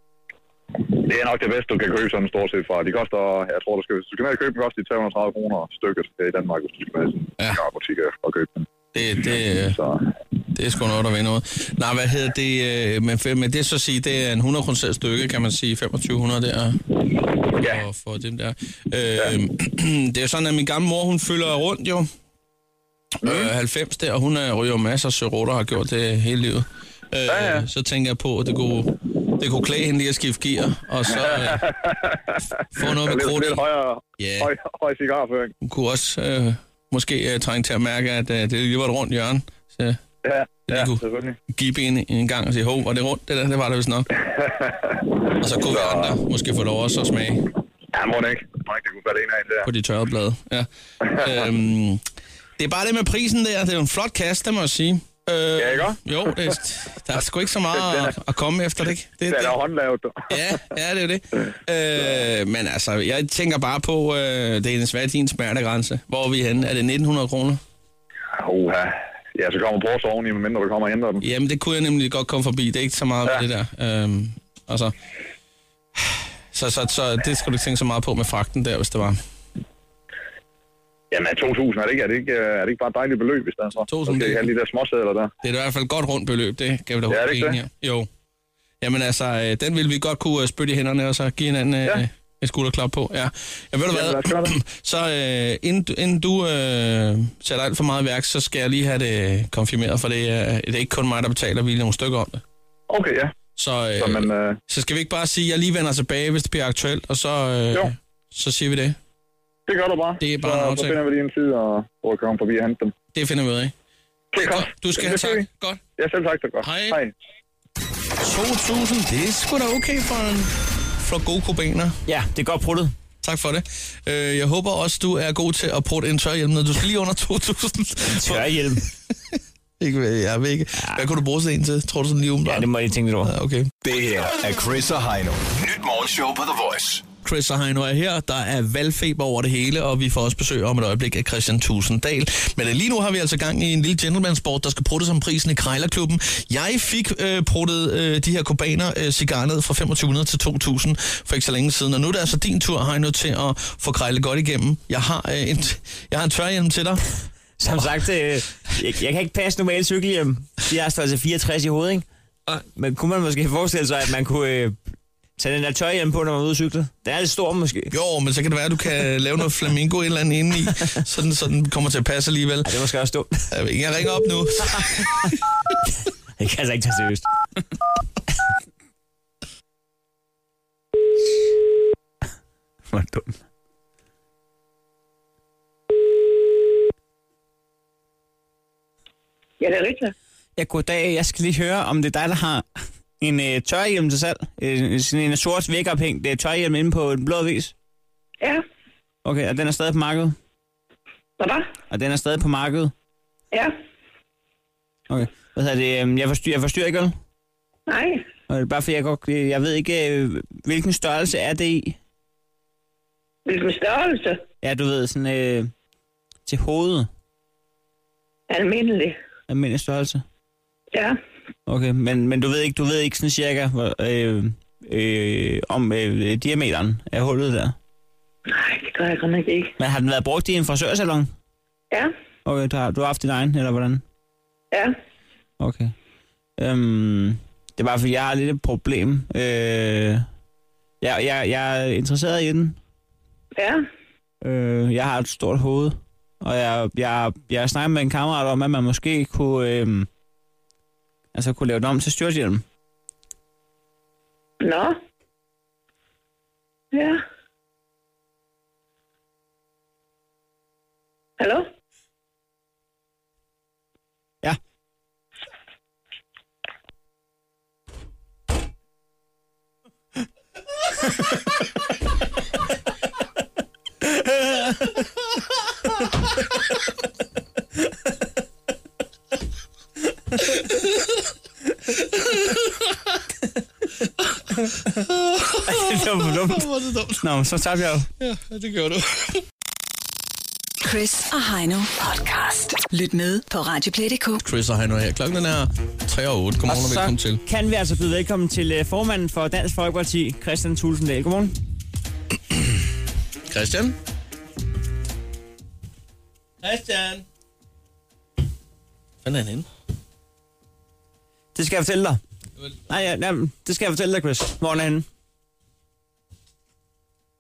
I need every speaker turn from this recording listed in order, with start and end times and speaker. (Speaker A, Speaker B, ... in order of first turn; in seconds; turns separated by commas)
Speaker A: 0.8-8.7, Speaker B: 8.9-9.8, Speaker A: 9.2-10.1, Speaker B: 10.5-16.8, Speaker B: 17.5-22.1, Speaker B: 23.2-31.7, Speaker A: 23.2-23.5, Speaker A: 27.3-27.7, Speaker A: 31.3-35.5, Speaker B: 32.7-33.6, Speaker B: 34.2-34.5, Speaker B: 35.6-40.0, Speaker A: 40.2-41.4, Speaker B: 40.7-44.1, Speaker A: 44.4-45.0, Speaker B: 45.4-47.4, Speaker A: 45.6-46.2, Speaker A: 47.9-49.7, Speaker B: 49.6-52.0, Speaker B: 52.6-59.6, Speaker A: 55.6-56.0, Speaker A: 57.8-58.1, Speaker A: 59.3-60.4, Speaker B: 60.3-67.6, Speaker A: 68.4-71.2, Speaker B: 71.2-74.9, Speaker B: 76.0-79.2, Speaker A: 81.1-85.3, Speaker B: 83.9-84.5, Speaker B: 85.4-88.1, Speaker A: 87.1-87.6, Speaker B: 88.8-102.4, Speaker A: 93.9-94.6, Speaker A: 102.9-103.3, Speaker B: 103.6-109.0, Speaker A: 104.0-104.6, Speaker A: 109.7-112.9, Speaker B: 110.2-111.0, Speaker B: 113.1-113.7, Speaker A: 114.3-115.5, Speaker B: 114.4-115.8, Speaker A: 116.0-117.1, Speaker B: 116.6-117.0, Speaker B: 118.2-122.0, Speaker C: 122.1-122.9, Speaker B: 123.2-132.7, Speaker C: 128.1-128.9, Speaker C: 130.8-131.0, Speaker C: 132.4-133.3, Speaker B: 133.2-133.7, Speaker D: 133.8-137.1, Speaker B: 137.2-157.0, Speaker C: 157.6-164.8, Speaker C: 165.4-167.9, Speaker B: 167.9-172.7, Speaker C: 172.7-173.5, Speaker B: 173.5-175.3, Speaker C: 176.4-177.3, Speaker C: 182.9-183.4, Speaker E: 189.6-190.1, Speaker C: 190.6-192.7, Speaker C: 193.2-197.7, Speaker C: 199.2-200.4, Speaker E: 201.4-201.7, Speaker C: 201.9-202.9, Speaker C: 205.1-207.2, Speaker E: 207.9-208.3, Speaker C: 208.5-212.0, Speaker E: 213.5-214.4, Speaker C: 214.6-215.7, Speaker C: 216.5-217.1, Speaker E: 218.5-219.2, Speaker C: 219.5-220.2, Speaker E: 220.9-221.2, Speaker C: 221.7-227.8, Speaker E: 228.5-229.7, Speaker C: 229.8-231.3, Speaker C: 232.4-234.0, Speaker C: 235.6-235.9, Speaker C: 236.6-240.3, Speaker C: 241.0-242.8, Speaker E: 243.6-243.9, Speaker C: 244.4-250.1, Speaker C: 251.3-252.6, Speaker E: 254.6-255.0, Speaker E: 256.9-257.2, Speaker E: 261.4-261.7, Speaker C: 274.2-274.7, Speaker B: 280.5-281.1, Speaker B: 282.1-283.1, Speaker B: 284.6-287.3, Speaker C: 285.7-286.7, Speaker C: 287.2-288.1, Speaker B: 288.2-289.4, Speaker F: 290.8-294.4, Speaker B: 294.4-297.4, Speaker C: 296.7-301.6, Speaker B: 303.5-304.0, Speaker B: 306.6-307.2, Speaker B: 309.2-309.7, Speaker C: 311.6-312.2, Speaker C: 312.9-315.1